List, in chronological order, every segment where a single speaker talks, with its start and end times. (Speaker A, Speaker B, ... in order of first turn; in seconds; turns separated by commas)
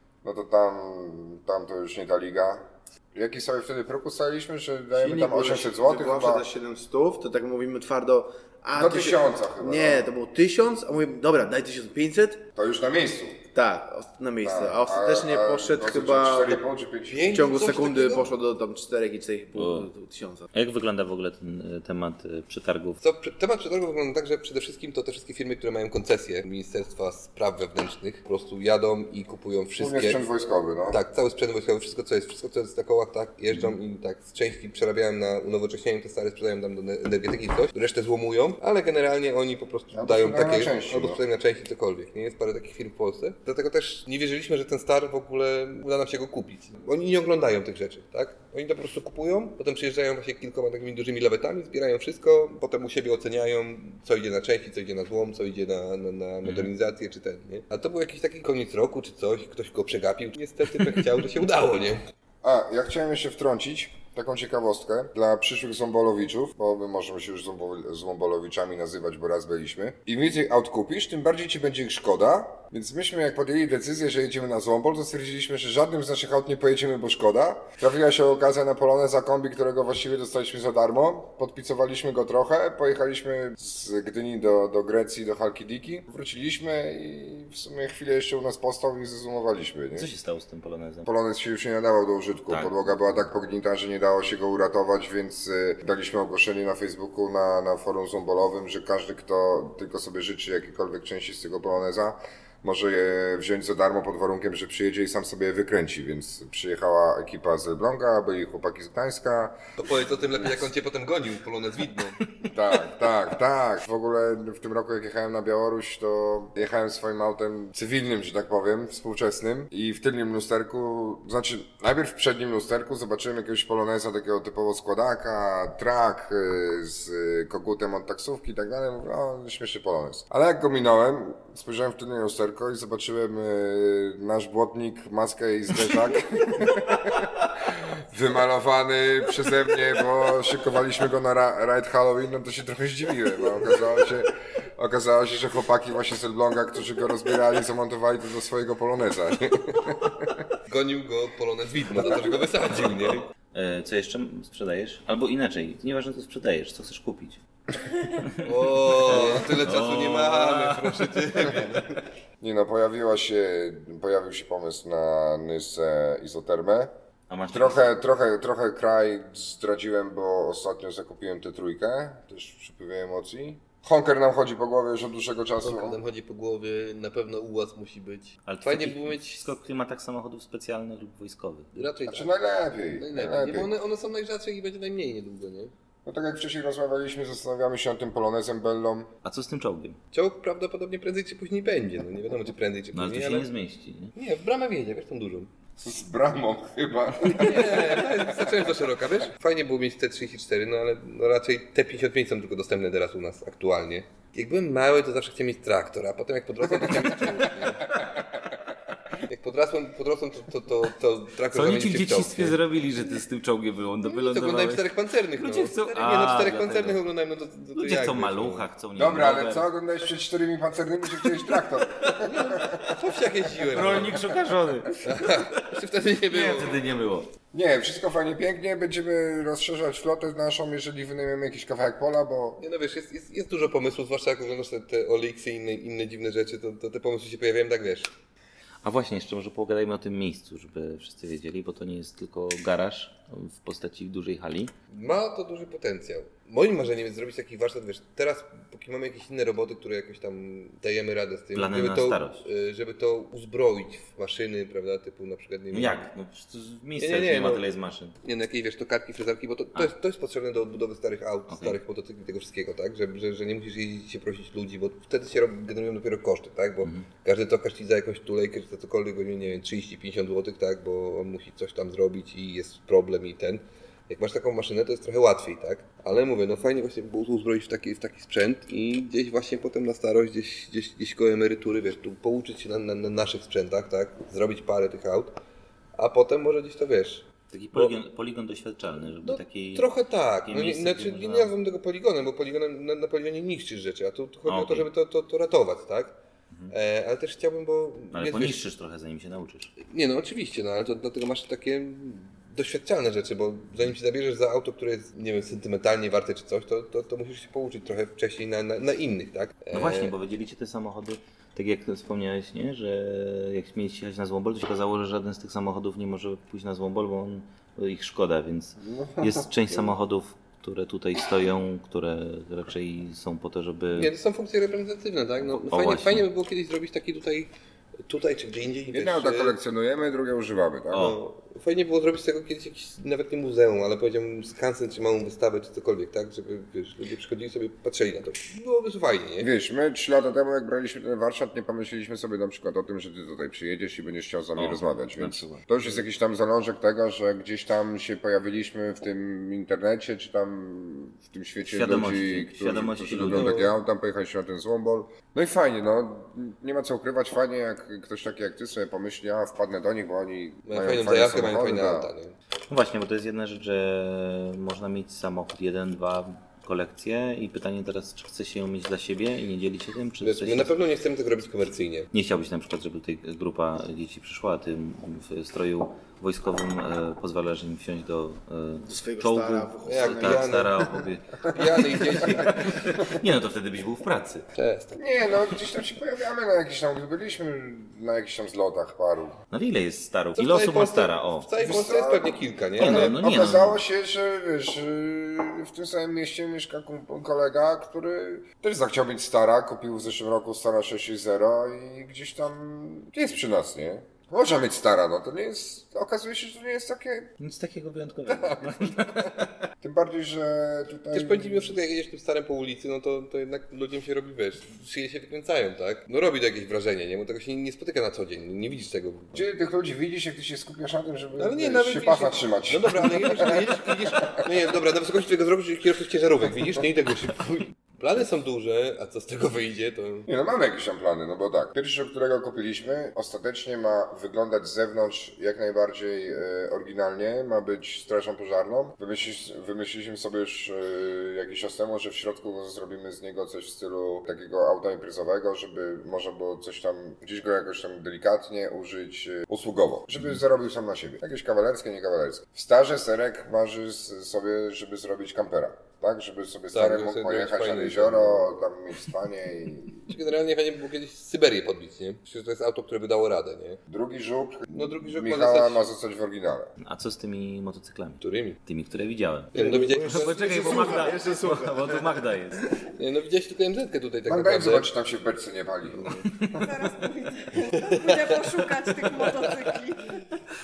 Speaker A: 0.2-6.4, Speaker B: 4.9-12.5, Speaker A: 8.7-10.1, Speaker A: 12.6-13.4, Speaker B: 13.5-16.6, Speaker A: 14.4-17.3, Speaker C: 17.1-18.3, Speaker B: 17.3-20.5, Speaker D: 19.5-19.9, Speaker D: 20.5-23.0, Speaker C: 23.0-30.2, Speaker A: 29.8-31.0, Speaker C: 30.9-62.0, Speaker A: 39.9-41.2, Speaker D: 56.4-56.7, Speaker A: 62.4-90.1, Speaker D: 89.9-91.1, Speaker A: 91.0-109.6, Speaker D: 92.5-93.3, Speaker C: 109.8-112.2, Speaker A: 112.4-150.4, Speaker C: 150.7-153.2, Speaker D: 152.7-157.4, Speaker D: 158.0-158.4, Speaker C: 158.4-161.9, Speaker D: 158.9-161.2, Speaker A: 162.4-166.9, Speaker D: 167.3-167.9, Speaker A: 167.5-176.0, Speaker C: 175.6-179.5, Speaker D: 178.4-181.7, Speaker C: 181.7-182.3, Speaker A: 182.0-183.7, Speaker C: 182.9-185.7, Speaker A: 186.1-189.1, Speaker D: 189.2-190.0, Speaker C: 190.1-193.5, Speaker D: 192.9-194.1, Speaker C: 194.1-195.5, Speaker A: 195.8-198.1, Speaker C: 197.3-207.9, Speaker C: 209.2-212.6, Speaker D: 211.5-214.9, Speaker C: 214.0-218.7, Speaker D: 215.4-217.0, Speaker D: 217.7-219.7, Speaker A: 218.9-222.8, Speaker C: 222.2-224.3, Speaker D: 223.7-225.5, Speaker C: 225.0-226.8, Speaker D: 226.3-227.3, Speaker A: 227.5-232.6, Speaker C: 232.6-238.1, Speaker D: 238.8-244.7, Speaker C: 244.9-256.0, Speaker D: 251.5-252.4, Speaker D: 255.7-258.1, Speaker C: 257.0-257.6, Speaker C: 258.2-285.4, Speaker D: 261.5-261.8, Speaker C: 286.0-288.0, Speaker D: 287.5-289.9, Speaker C: 289.2-296.1, Speaker D: 290.4-291.5, Speaker D: 294.4-294.9, Speaker C: 296.7-298.7, Speaker D: 298.1-299.7, Speaker C: 299.9-310.1, Speaker D: 309.7-324.1, Speaker A: 318.8-319.9, Speaker C: 323.9-327.5, Speaker D: 325.7-326.2, Speaker C: 328.1-329.6, Speaker A: 328.9-331.1, Speaker D: 330.9-331.2, Speaker C: 330.9-339.5, Speaker A: 339.4-362.1, Speaker D: 344.6-345.9, Speaker D: 351.7-353.8, Speaker C: 360.6-362.4, Speaker D: 362.7-370.7, Speaker C: 370.2-372.1, Speaker D: 372.1-384.4, Speaker B: 378.8-380.6, Speaker C: 379.8-382.9, Speaker C: 384.5-385.0, Speaker A: 384.9-389.4, Speaker D: 389.5-391.5, Speaker C: 390.3-393.2, Speaker A: 391.6-407.4, Speaker D: 392.8-393.8, Speaker D: 407.4-409.5, Speaker A: 408.2-411.7, Speaker C: 411.1-419.4, Speaker A: 419.3-424.4, Speaker C: 421.4-430.3, Speaker A: 430.3-460.1, Speaker C: 456.7-458.6, Speaker C: 460.1-463.8, Speaker A: 463.9-466.7, Speaker C: 464.7-465.9, Speaker D: 466.8-472.6, Speaker C: 468.2-468.6, Speaker C: 469.5-471.1, Speaker B: 469.6-472.1, Speaker C: 472.8-474.9, Speaker A: 474.3-476.7, Speaker C: 475.9-476.4, Speaker E: 476.6-480.3, Speaker C: 477.6-479.8